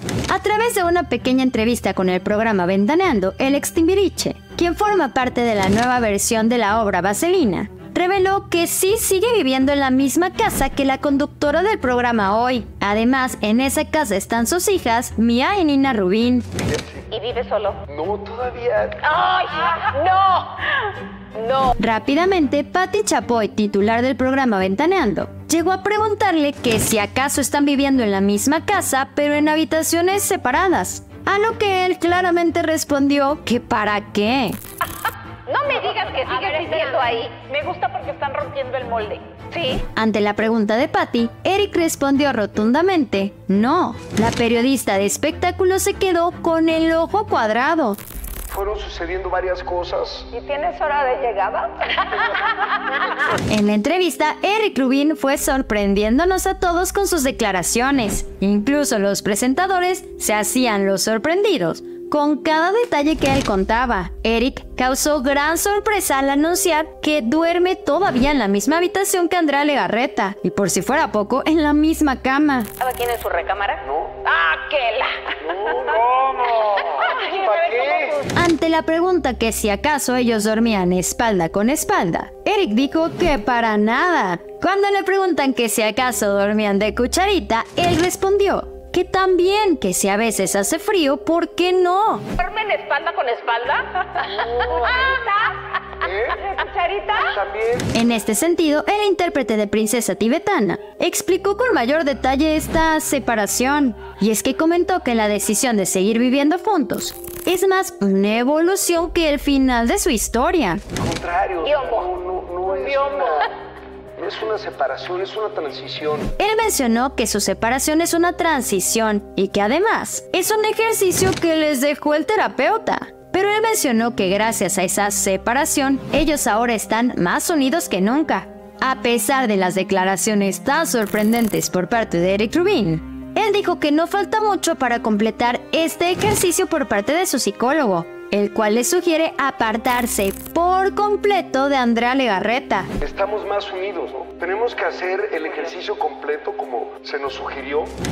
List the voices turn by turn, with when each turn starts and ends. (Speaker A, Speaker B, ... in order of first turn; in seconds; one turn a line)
Speaker A: 0.3-16.5
Speaker B: 16.7-17.0
Speaker C: 17.1-17.8
Speaker B: 17.9-19.0
Speaker C: 19.1-20.8
Speaker C: 21.4-21.7
Speaker A: 21.8-34.6
Speaker C: 35.5-39.8
Speaker A: 39.9-48.0
Speaker B: 48.5-50.3
Speaker C: 50.3-52.9
Speaker A: 53.5-72.7
Speaker C: 72.8-75.6
Speaker B: 73.8-74.2
Speaker B: 75.4-78.3
Speaker C: 76.7-78.2
Speaker A: 78.3-92.3
Speaker C: 92.4-95.3
Speaker B: 94.2-95.2
Speaker B: 96.0-96.5
Speaker C: 96.6-97.2
Speaker B: 97.1-97.9
Speaker A: 97.9-110.8
Speaker B: 111.0-113.5
Speaker C: 111.7-112.1
Speaker C: 112.8-113.3
Speaker B: 114.2-116.3
Speaker A: 116.4-142.9
Speaker B: 143.0-147.9